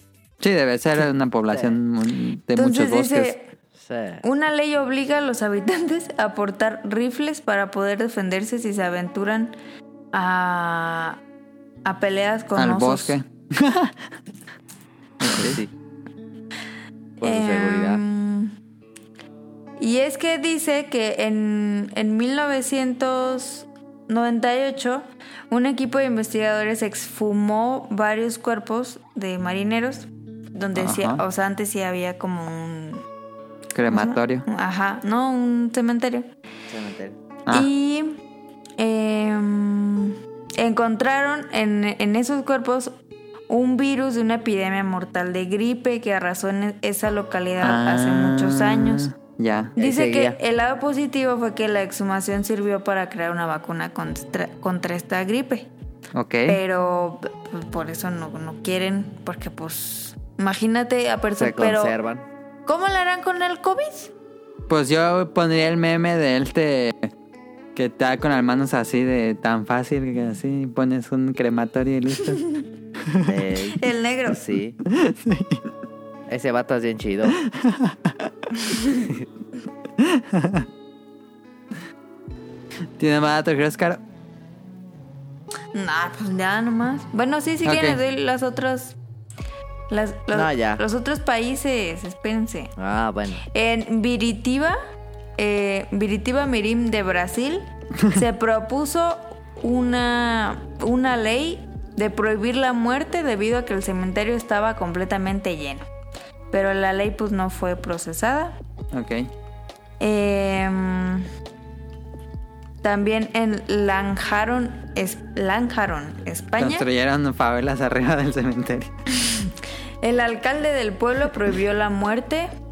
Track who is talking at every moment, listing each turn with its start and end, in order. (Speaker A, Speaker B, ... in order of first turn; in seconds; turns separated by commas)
Speaker A: 0.4-3.3, Speaker B: 1.5-1.8, Speaker C: 2.5-3.5, Speaker B: 3.8-4.2, Speaker C: 4.2-9.6, Speaker C: 10.1-11.2, Speaker C: 11.8-13.2, Speaker A: 12.6-13.9, Speaker A: 15.2-15.6, Speaker B: 15.3-15.7, Speaker B: 17.2-18.0, Speaker C: 17.2-18.6, Speaker C: 19.8-33.0, Speaker A: 30.8-31.2, Speaker A: 33.8-34.5, Speaker C: 33.9-36.3, Speaker B: 36.7-37.2, Speaker C: 37.5-38.2, Speaker C: 38.8-43.0, Speaker C: 43.5-49.1, Speaker A: 47.6-49.7, Speaker B: 49.8-50.4, Speaker C: 49.8-55.7, Speaker A: 56.1-56.6, Speaker C: 56.5-62.0, Speaker B: 61.4-62.3, Speaker C: 62.7-64.1, Speaker A: 64.7-67.1, Speaker A: 67.8-72.5, Speaker B: 73.2-74.8, Speaker C: 73.8-74.4, Speaker A: 74.9-75.6, Speaker B: 76.3-77.4, Speaker A: 77.4-78.3, Speaker C: 78.6-79.0, Speaker A: 80.0-80.7, Speaker A: 83.0-84.0, Speaker C: 85.7-89.0, Speaker A: 87.7-88.0, Speaker C: 89.9-92.7, Speaker B: 90.3-90.8, Speaker B: 92.8-93.4, Speaker C: 93.5-94.8, Speaker C: 95.4-105.9, Speaker C: 106.5-108.6, Speaker A: 108.9-109.3, Speaker C: 110.0-111.3, Speaker C: 112.8-116.9, Speaker A: 116.6-118.9, Speaker C: 119.2-122.5